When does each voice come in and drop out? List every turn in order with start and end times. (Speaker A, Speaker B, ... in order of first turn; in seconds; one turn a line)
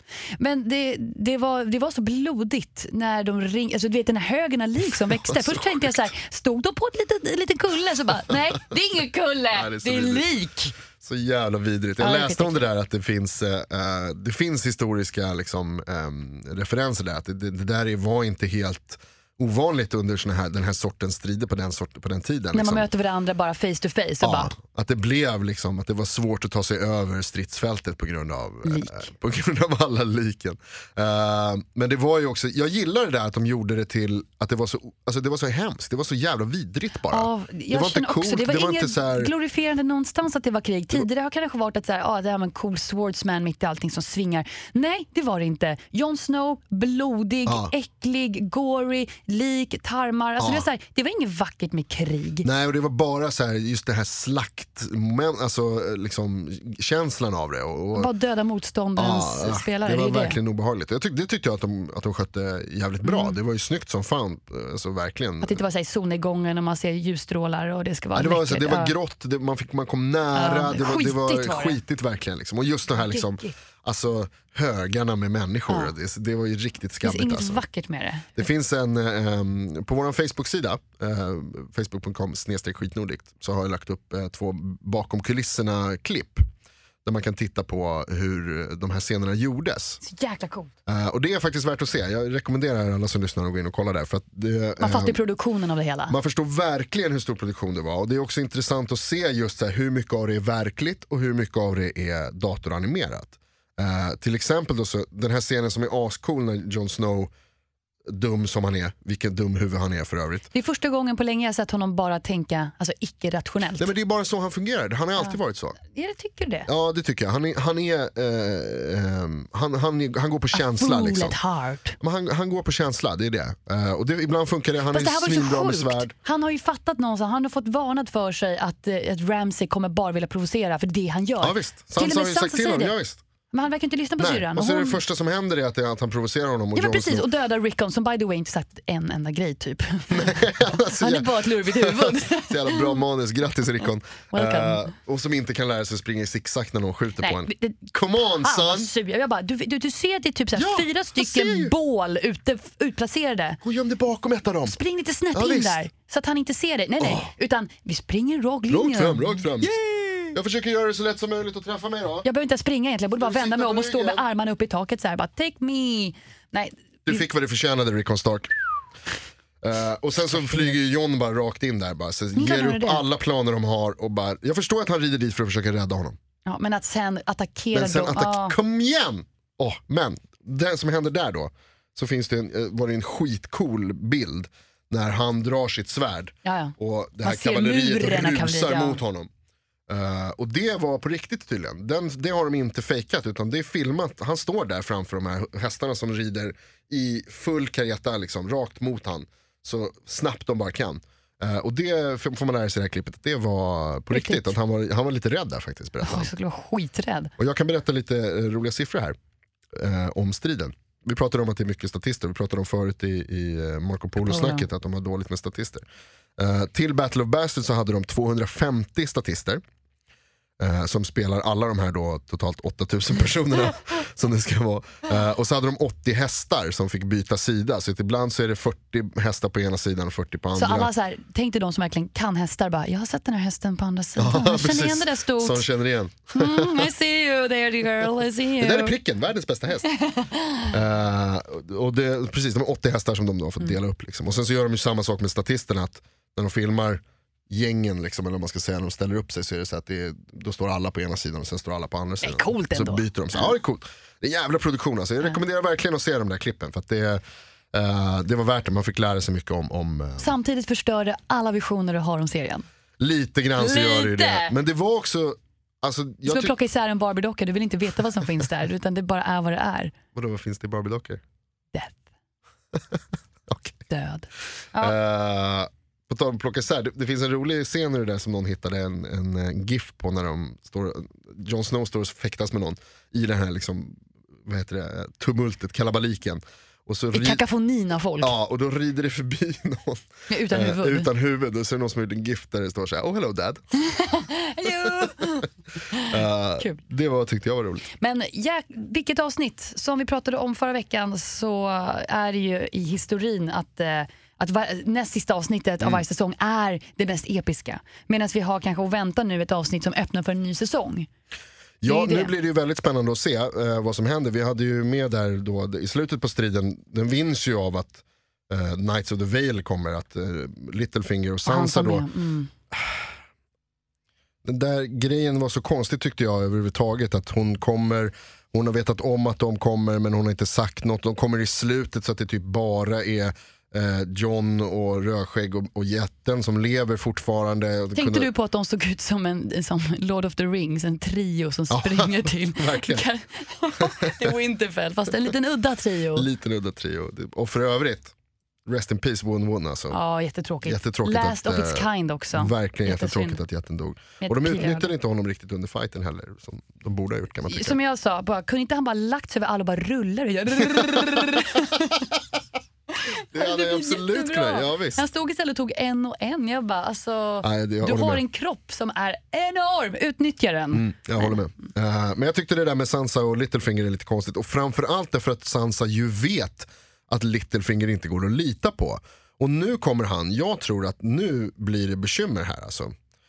Speaker A: 0.3-10.8
Speaker B: 5.1-6.0
Speaker B: 9.5-10.3
Speaker B: 11.0-22.9
Speaker A: 12.0-12.6
Speaker A: 22.5-24.5
Speaker B: 24.2-39.3
Speaker A: 28.6-29.1
Speaker A: 37.1-52.5
Speaker B: 47.5-47.7
Speaker B: 50.4-50.6
Speaker B: 52.4-58.1
Speaker A: 57.9-60.4
Speaker B: 59.0-65.6
Speaker A: 63.0-63.4
Speaker A: 65.4-68.9
Speaker B: 68.1-77.6
Speaker A: 70.3-71.8
Speaker A: 73.0-73.5
Speaker A: 77.0-78.3
Speaker B: 78.3-86.4
Speaker B: 87.0-90.0
Speaker A: 90.0-90.7
Speaker B: 90.9-95.2
Speaker A: 94.8-96.2
Speaker B: 96.1-107.3
Speaker B: 108.0-110.5
Speaker A: 110.5-113.9
Speaker B: 113.8-115.8
Speaker A: 115.2-116.7
Speaker B: 116.7-121.4
Speaker A: 120.5-122.0
Speaker B: 122.0-126.1
Speaker A: 124.9-132.9
Speaker B: 131.4-133.2
Speaker A: 133.5-135.0
Speaker B: 134.2-137.3
Speaker A: 136.8-143.0
Speaker B: 140.1-148.9
Speaker A: 144.3-144.9
Speaker A: 147.2-153.6
Speaker B: 150.5-151.7
Speaker B: 153.6-154.8
Speaker A: 154.7-160.3
Speaker B: 155.3-155.8
Speaker B: 157.0-157.3
Speaker B: 158.7-159.8
Speaker B: 160.3-162.3
Speaker A: 162.2-167.2
Speaker B: 163.2-164.2
Speaker B: 167.1-168.5
Speaker B: 169.6-176.2
Speaker A: 170.3-170.7
Speaker A: 172.4-173.0
Speaker A: 176.4-178.6
Speaker B: 177.7-189.3
Speaker A: 186.4-189.0
Speaker B: 189.9-206.3
Speaker A: 204.1-204.5
Speaker A: 206.0-207.3
Speaker B: 207.4-209.2
Speaker B: 209.7-215.8
Speaker A: 214.3-214.6
Speaker B: 216.4-219.6
Speaker B: 220.6-230.9
Speaker A: 230.6-235.7
Speaker B: 234.2-236.9
Speaker A: 236.3-238.9
Speaker B: 238.6-239.9
Speaker A: 240.0-240.6
Speaker B: 240.7-260.4
Speaker A: 252.2-253.5
Speaker A: 260.2-262.6
Speaker B: 263.0-266.6
Speaker A: 263.6-264.6
Speaker A: 266.3-269.9
Speaker B: 270.1-271.2
Speaker B: 272.8-273.8
Speaker A: 273.9-274.9
Speaker B: 274.8-287.4
Speaker A: 287.1-288.3
Speaker B: 288.2-293.6
Speaker A: 290.3-291.1
Speaker A: 293.9-296.8
Speaker B: 294.9-295.1
Speaker B: 296.1-297.9
Speaker A: 298.0-311.1
Speaker B: 311.8-322.1
Speaker A: 311.9-312.3
Speaker A: 321.4-322.5
Speaker B: 322.7-323.1
Speaker B: 324.4-338.3
Speaker A: 337.9-346.3
Speaker B: 341.7-343.1
Speaker B: 343.8-344.3
Speaker B: 346.1-348.1
Speaker B: 348.6-350.0
Speaker A: 349.9-353.4
Speaker B: 350.6-357.8
Speaker A: 354.2-354.9
Speaker A: 357.5-362.1
Speaker B: 360.8-361.2
Speaker A: 362.9-371.3
Speaker B: 363.3-365.1
Speaker B: 367.4-368.2
Speaker B: 370.7-382.9